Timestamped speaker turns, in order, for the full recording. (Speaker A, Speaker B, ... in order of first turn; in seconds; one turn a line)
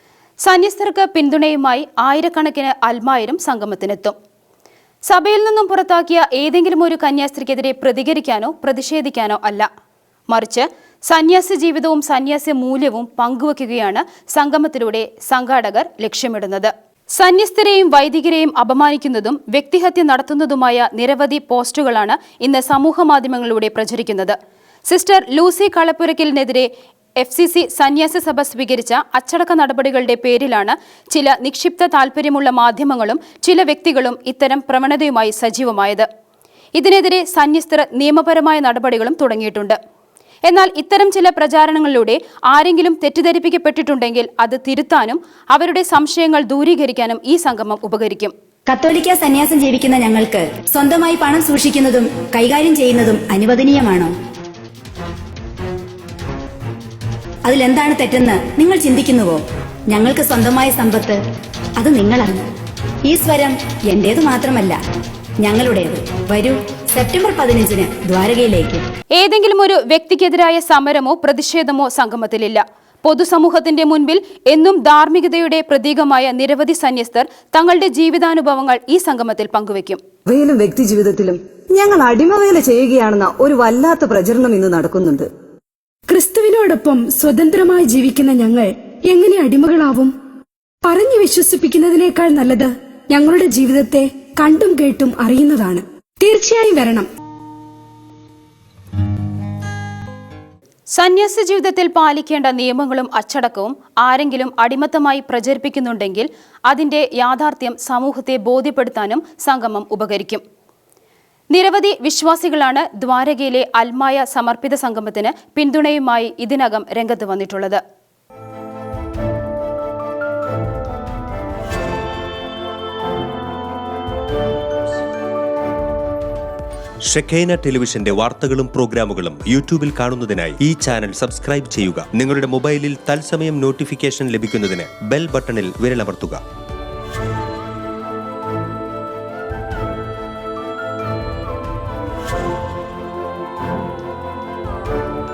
Speaker A: 0.4-4.1
Speaker A: 5.1-9.7
Speaker A: 10.3-24.4
Speaker A: 24.9-26.7
Speaker A: 27.2-36.1
Speaker A: 36.7-39.8
Speaker A: 40.5-48.3
Speaker B: 48.7-54.1
Speaker B: 57.5-61.2
Speaker B: 61.8-62.4
Speaker B: 63.0-64.8
Speaker B: 65.4-68.8
Speaker A: 69.1-80.0
Speaker C: 80.3-85.3
Speaker D: 86.1-90.1
Speaker D: 90.8-97.1
Speaker A: 100.9-110.4
Speaker A: 111.5-117.8
Speaker E: 127.1-136.4